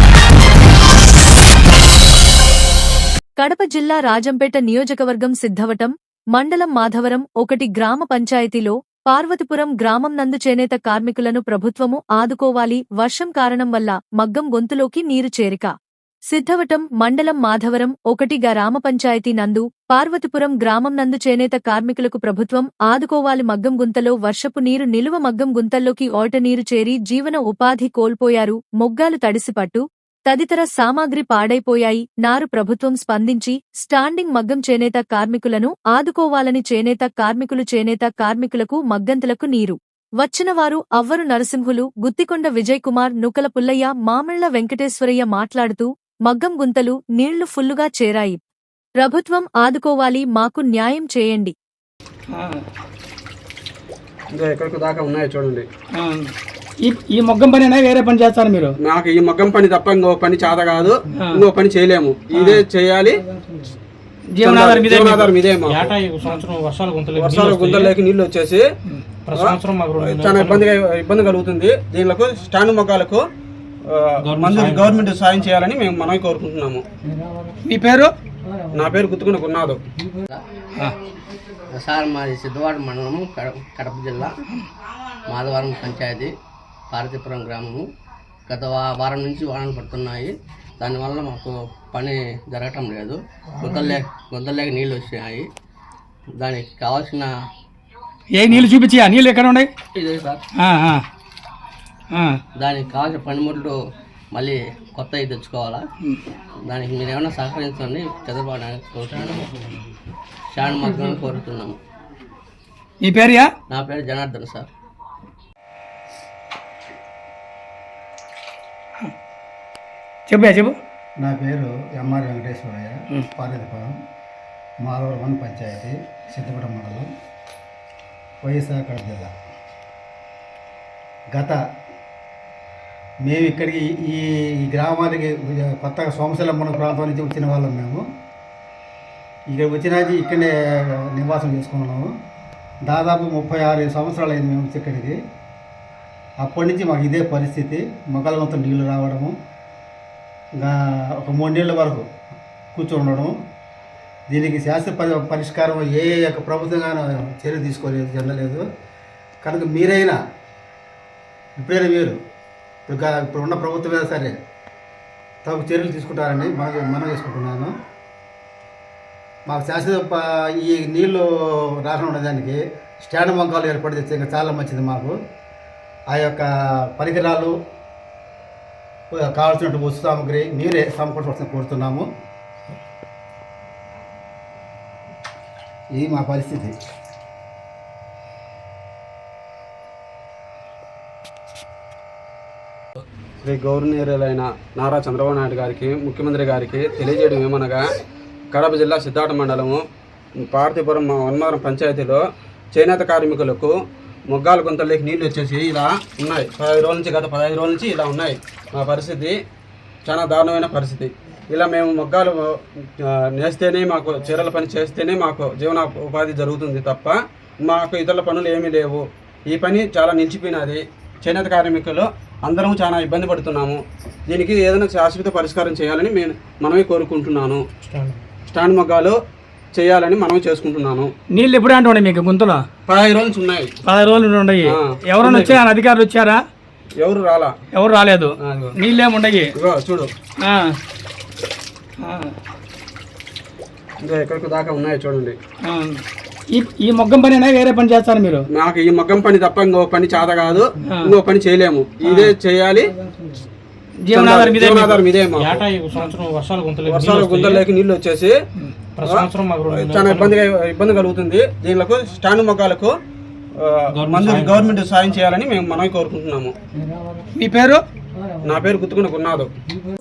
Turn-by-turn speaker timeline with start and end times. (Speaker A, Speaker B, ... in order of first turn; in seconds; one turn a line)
Speaker A: 3.4-15.7
Speaker A: 16.3-48.4
Speaker A: 49.0-51.5
Speaker B: 52.3-52.6
Speaker C: 54.3-55.7
Speaker B: 56.0-58.8
Speaker C: 58.8-63.2
Speaker B: 61.1-61.4
Speaker B: 62.4-62.6
Speaker B: 64.3-65.3
Speaker C: 64.4-65.9
Speaker D: 65.7-67.9
Speaker C: 67.2-68.7
Speaker D: 69.3-70.7
Speaker C: 69.3-73.2
Speaker C: 73.9-76.8
Speaker D: 74.2-75.0
Speaker B: 77.7-78.1
Speaker C: 78.7-79.8
Speaker E: 81.7-84.4
Speaker E: 85.3-86.3
Speaker E: 86.9-87.9
Speaker E: 88.5-95.5
Speaker E: 96.4-97.3
Speaker B: 98.4-99.7
Speaker E: 99.9-100.4
Speaker B: 100.6-101.0
Speaker B: 102.1-102.4
Speaker E: 102.6-103.8
Speaker E: 104.3-105.9
Speaker E: 106.6-109.5
Speaker E: 110.5-111.8
Speaker B: 113.0-113.5
Speaker E: 113.7-114.7
Speaker B: 120.3-120.8
Speaker F: 121.2-124.0
Speaker F: 124.8-127.1
Speaker F: 128.4-129.3
Speaker F: 131.3-131.6
Speaker F: 133.2-138.1
Speaker F: 139.5-142.1
Speaker F: 142.9-145.2
Speaker F: 146.4-149.3
Speaker F: 150.6-152.1
Speaker F: 152.8-153.3
Speaker F: 154.3-158.6
Speaker F: 159.4-160.2
Speaker F: 161.6-162.2
Speaker F: 162.9-164.3
Speaker F: 165.4-167.7
Speaker F: 169.5-175.2
Speaker F: 176.1-177.5
Speaker F: 179.1-182.1
Speaker F: 186.0-186.7
Speaker C: 193.4-197.8
Speaker C: 198.5-199.8
Speaker C: 200.5-203.7
Speaker C: 204.3-209.4
Speaker C: 210.1-227.6
Speaker D: 227.8-228.2
Speaker C: 228.5-229.2
Speaker C: 229.7-231.1
Speaker B: 231.3-232.7
Speaker C: 232.9-233.7
Speaker B: 233.9-236.4
Speaker C: 234.7-235.6
Speaker C: 237.0-237.6
Speaker B: 237.7-239.5
Speaker C: 238.4-238.8
Speaker C: 239.6-240.1
Speaker B: 240.4-240.8
Speaker B: 242.0-242.3
Speaker C: 244.0-245.4
Speaker B: 245.7-248.5
Speaker C: 248.5-252.9
Speaker B: 250.8-251.1
Speaker B: 252.1-252.3
Speaker B: 254.1-255.0
Speaker C: 254.1-255.7
Speaker D: 255.4-257.6
Speaker C: 256.9-258.4
Speaker D: 259.0-260.4
Speaker C: 259.0-262.9
Speaker C: 263.6-266.5
Speaker D: 263.9-264.8
Speaker B: 267.4-267.8
Speaker C: 268.4-269.5